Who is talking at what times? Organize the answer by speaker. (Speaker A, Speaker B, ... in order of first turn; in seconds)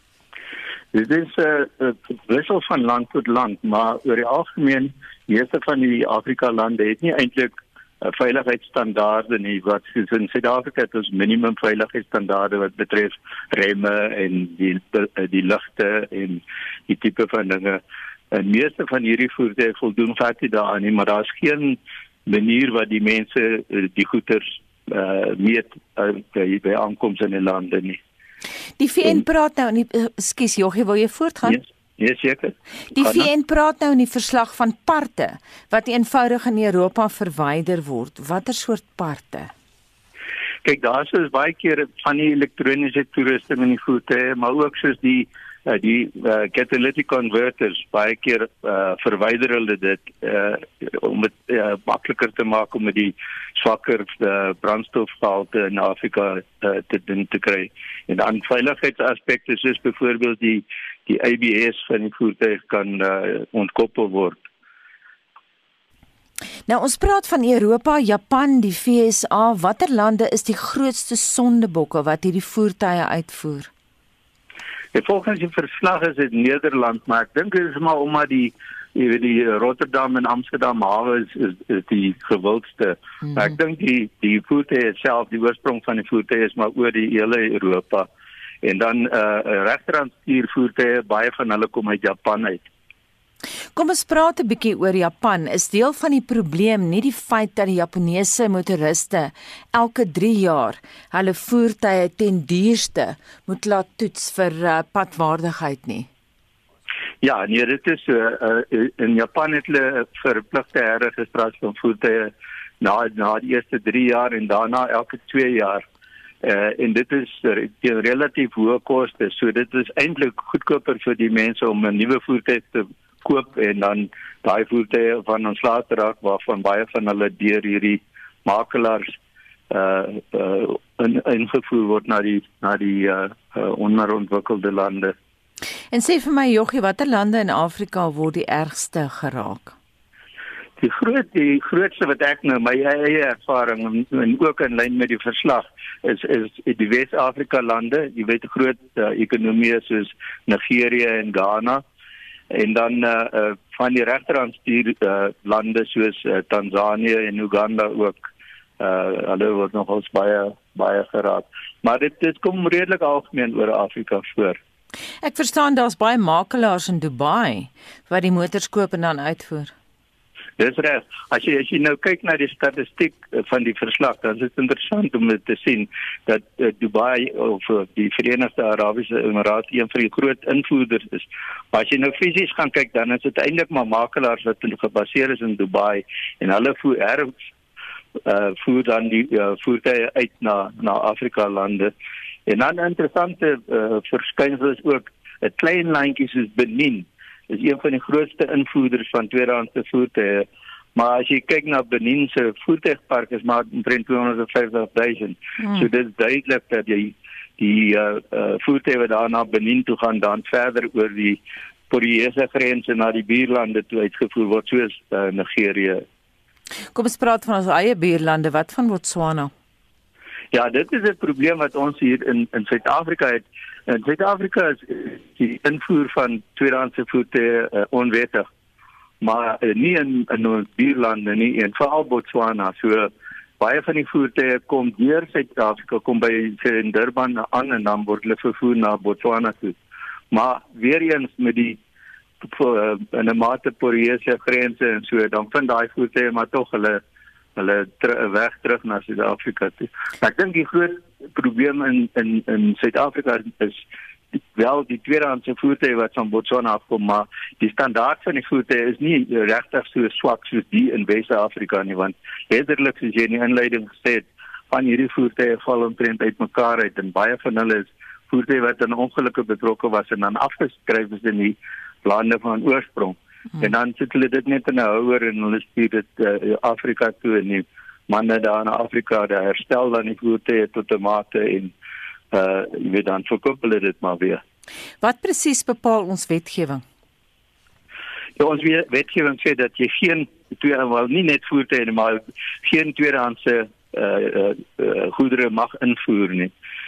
Speaker A: 0.9-17.8, 18.3-28.0, 31.4-33.3, 40.6-64.5, 74.9-88.1, 88.6-92.7, 107.2-115.8, 116.4-129.2, 129.7-135.1, 140.8-151.8, 152.5-158.2, 158.8-164.6, 170.6-187.3, 188.2-191.9, 192.5-211.4, 211.9-216.0, 220.5-228.4, 229.2-239.8, 240.3-241.8, 242.4-247.0, 247.6-253.8, 254.5-281.7, 282.3-284.4, 288.4-296.5
Speaker B: 28.8-31.6, 32.9-39.5, 66.7-73.7, 93.7-106.1, 135.9-139.7, 165.2-169.7, 205.6-205.9, 216.9-219.5, 285.0-286.8